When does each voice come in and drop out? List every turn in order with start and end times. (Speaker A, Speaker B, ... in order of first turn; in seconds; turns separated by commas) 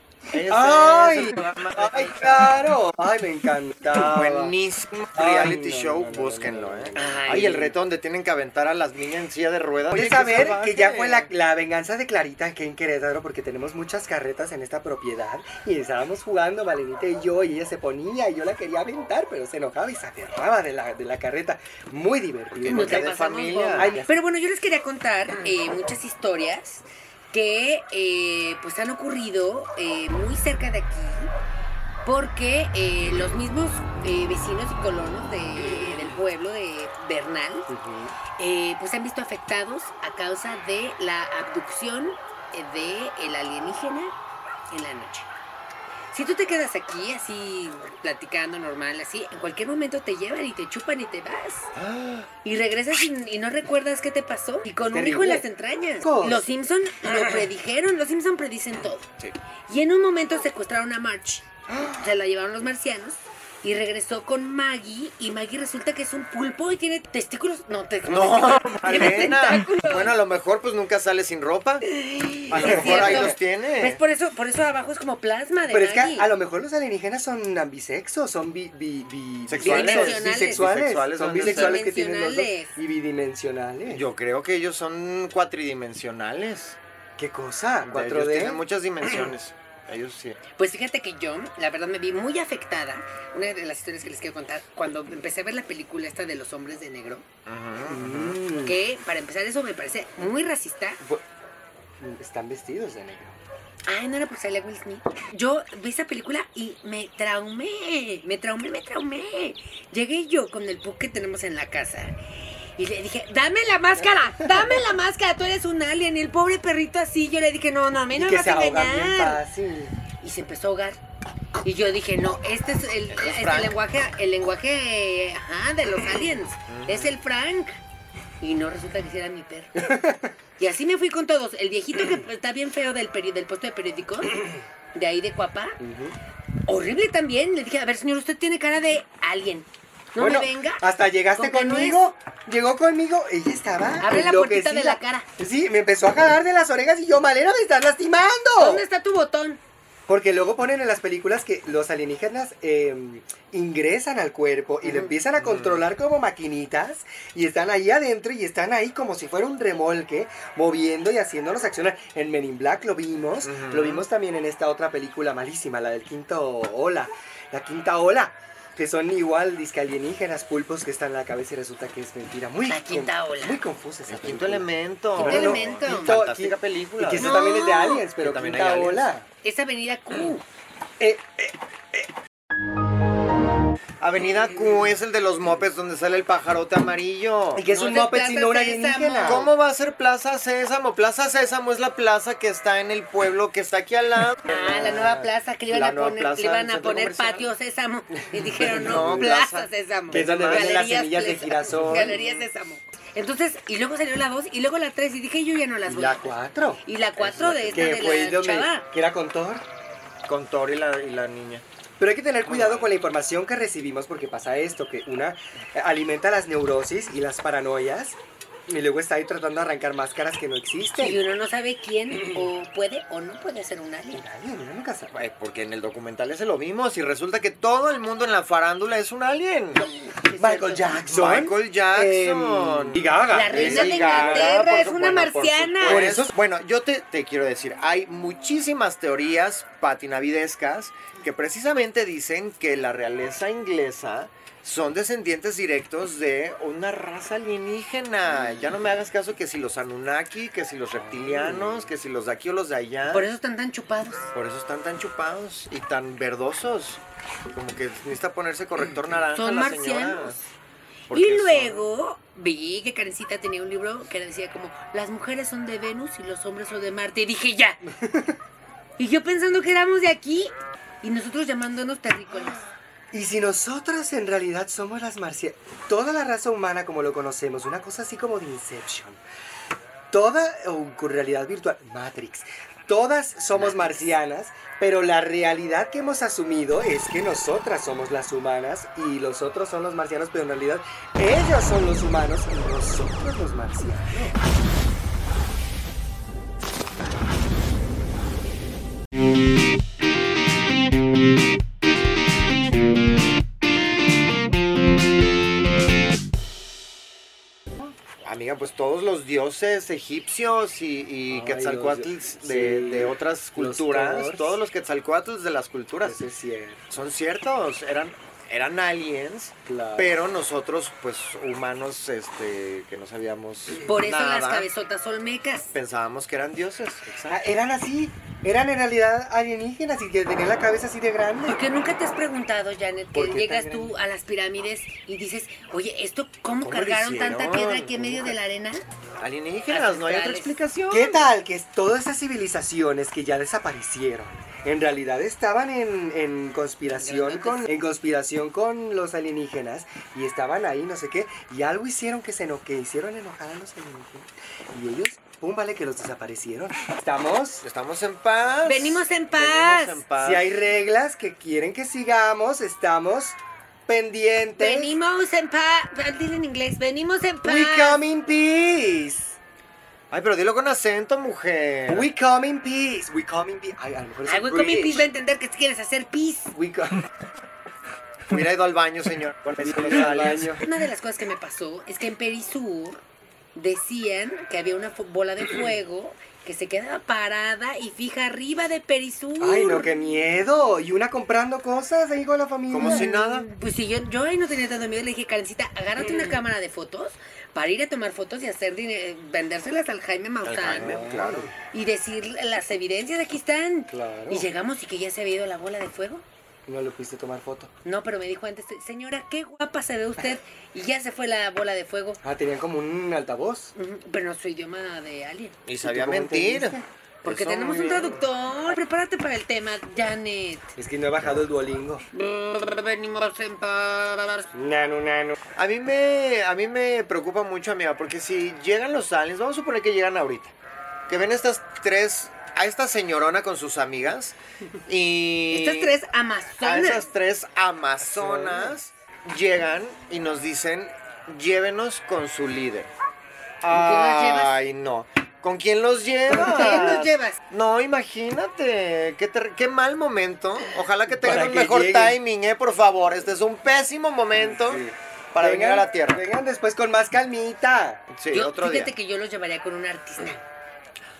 Speaker A: 0.3-2.8, Speaker B: 0.5-4.5, Speaker A: 3.9-11.3, Speaker B: 5.1-7.7, Speaker C: 7.0-7.6, Speaker B: 9.9-23.1, Speaker A: 22.5-24.0, Speaker C: 22.7-31.3, Speaker B: 23.7-24.1, Speaker C: 32.0-37.7, Speaker B: 37.7-38.1, Speaker C: 38.4-44.1, Speaker C: 44.7-45.3, Speaker C: 46.1-51.7, Speaker A: 51.7-52.3, Speaker C: 52.4-59.0, Speaker B: 54.9-55.4, Speaker B: 56.0-56.4, Speaker C: 59.7-70.1, Speaker A: 68.1-71.8, Speaker C: 71.8-76.3, Speaker A: 72.5-74.0, Speaker B: 72.5-73.3, Speaker B: 75.7-84.0, Speaker A: 79.5-81.8, Speaker C: 79.6-80.6, Speaker C: 81.4-82.7, Speaker A: 83.9-86.8, Speaker B: 87.2-88.6, Speaker A: 87.8-90.4, Speaker C: 90.6-97.2, Speaker A: 97.5-98.4, Speaker B: 97.8-98.8, Speaker C: 98.6-101.0, Speaker B: 102.0-103.4, Speaker C: 103.9-119.4, Speaker B: 118.1-119.9, Speaker C: 120.2-121.0, Speaker C: 121.6-127.8, Speaker A: 123.1-123.8, Speaker A: 126.7-127.2, Speaker C: 128.4-129.9, Speaker B: 129.8-130.3, Speaker C: 130.6-135.8, Speaker B: 135.8-136.2, Speaker C: 136.7-140.8, Speaker B: 140.2-148.8, Speaker C: 141.3-142.0, Speaker C: 144.0-145.2, Speaker C: 148.6-149.6, Speaker B: 150.1-179.3, Speaker C: 154.8-155.1, Speaker A: 155.3-155.8, Speaker A: 163.4-164.0, Speaker C: 172.7-173.6, Speaker A: 174.1-177.6, Speaker C: 175.2-176.1, Speaker C: 177.2-178.0, Speaker A: 178.1-179.1, Speaker C: 179.4-180.4, Speaker B: 181.0-182.1, Speaker A: 184.0-187.6, Speaker B: 187.5-189.5, Speaker C: 187.7-189.5, Speaker A: 189.2-197.5, Speaker C: 194.4-208.8, Speaker B: 198.3-199.3, Speaker A: 198.6-200.9, Speaker B: 200.1-202.2, Speaker A: 201.7-202.4, Speaker B: 205.9-206.8, Speaker A: 207.2-208.1, Speaker B: 207.7-209.6, Speaker A: 210.2-211.6, Speaker B: 212.0-221.2, Speaker A: 212.4-212.9, Speaker C: 221.0-224.2, Speaker B: 224.1-225.2, Speaker A: 225.1-229.9, Speaker C: 229.8-231.2, Speaker B: 230.3-234.6, Speaker A: 231.1-253.3, Speaker C: 233.3-236.1, Speaker B: 235.8-236.3, Speaker B: 250.9-251.9, Speaker C: 253.1-254.3, Speaker A: 254.3-260.4, Speaker C: 259.3-260.4, Speaker A: 261.1-261.8, Speaker C: 261.1-267.8, Speaker B: 267.9-268.4, Speaker C: 269.0-272.6, Speaker B: 273.1-279.2, Speaker B: 280.1-294.4, Speaker A: 283.5-283.9, Speaker A: 308.2-316.2, Speaker B: 311.3-314.6, Speaker B: 316.0-316.9, Speaker A: 316.9-324.7, Speaker B: 319.6-320.2, Speaker C: 323.8-325.7, Speaker A: 325.7-327.4, Speaker B: 327.3-331.6, Speaker C: 331.4-338.8, Speaker B: 333.1-333.9, Speaker A: 336.6-338.3, Speaker A: 339.2-341.3, Speaker C: 339.7-340.5, Speaker B: 340.9-357.6, Speaker C: 347.0-347.7, Speaker A: 357.6-360.5, Speaker C: 358.6-360.0, Speaker B: 360.2-364.9, Speaker C: 364.6-368.0, Speaker B: 367.4-369.4, Speaker A: 370.1-372.1, Speaker B: 371.9-375.1, Speaker C: 374.2-376.5, Speaker B: 376.5-377.1, Speaker A: 378.3-380.6, Speaker B: 379.6-380.6, Speaker C: 380.6-383.0, Speaker C: 383.5-389.9, Speaker B: 389.4-393.1, Speaker A: 392.7-393.5, Speaker C: 392.8-401.0, Speaker A: 400.4-401.5, Speaker B: 400.8-401.5, Speaker C: 401.7-406.2, Speaker B: 403.9-404.5, Speaker B: 406.7-407.7, Speaker C: 407.8-412.2, Speaker B: 412.2-413.7, Speaker C: 413.7-415.6, Speaker A: 415.6-418.2, Speaker B: 415.8-416.9, Speaker C: 417.2-420.7, Speaker B: 420.8-422.0, Speaker C: 422.1-424.5, Speaker B: 424.5-425.4, Speaker A: 425.6-430.5, Speaker A: 431.1-435.9, Speaker C: 435.5-437.1, Speaker A: 436.6-442.9, Speaker B: 438.0-438.8, Speaker A: 443.6-456.2, Speaker C: 443.7-444.5, Speaker C: 446.3-447.4, Speaker B: 446.5-446.9, Speaker B: 451.1-452.2, Speaker B: 454.4-458.0, Speaker A: 458.1-458.9, Speaker C: 458.3-460.4